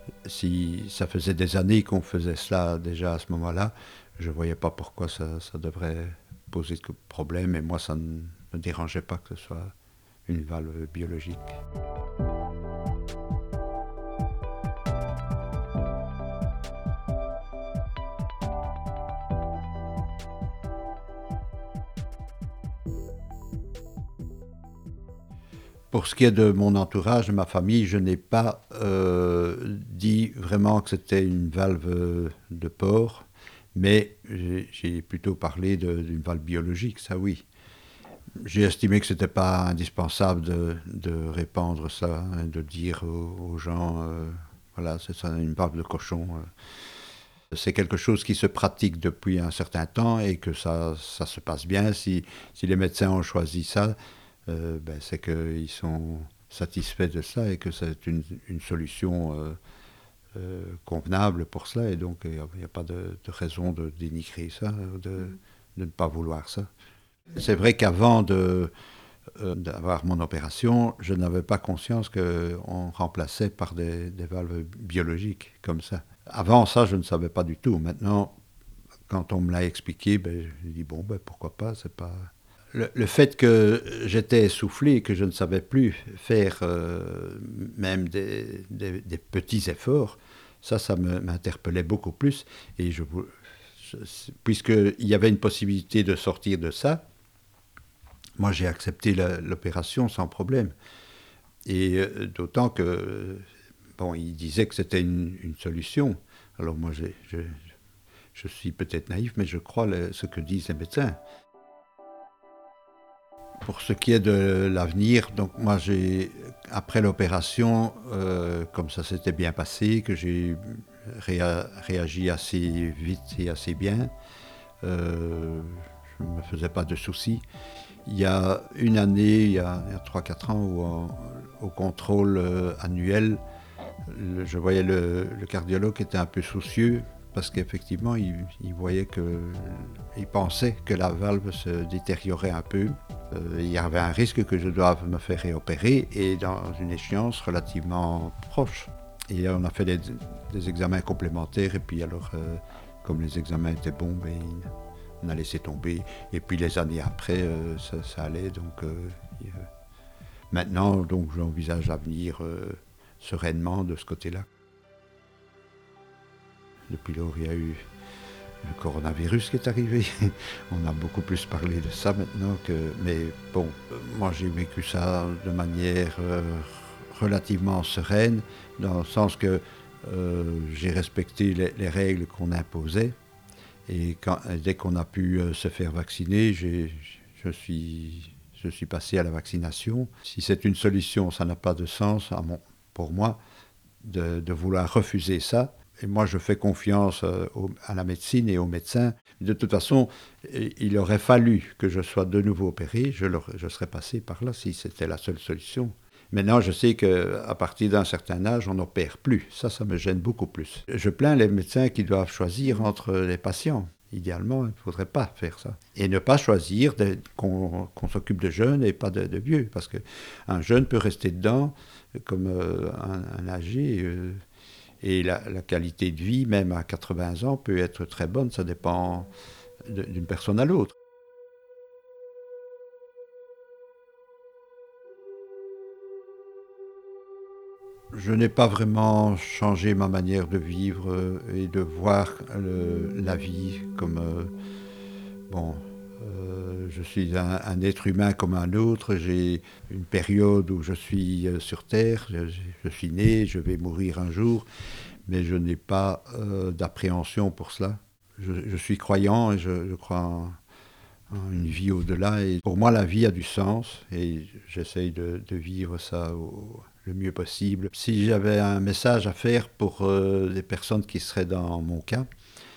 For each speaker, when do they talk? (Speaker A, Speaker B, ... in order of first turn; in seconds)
Speaker A: 0.2-9.7, 10.3-11.6, 25.9-37.5, 38.4-46.5, 47.5-54.0, 54.5-59.6, 60.3-66.7, 67.3-68.7, 69.4-78.3, 79.1-97.0, 98.4-100.7, 101.7-103.5, 104.0-107.6, 108.3-111.2, 113.6-124.1, 124.8-127.4, 128.1-133.4, 134.1-154.7, 155.2-159.7, 160.5-164.5, 166.9-167.8, 168.6-183.2, 183.9-193.4, 194.0-224.4, 225.0-229.3, 229.8-230.9, 238.1-244.5, 245.5-254.7, 255.3-260.6, 261.3-272.3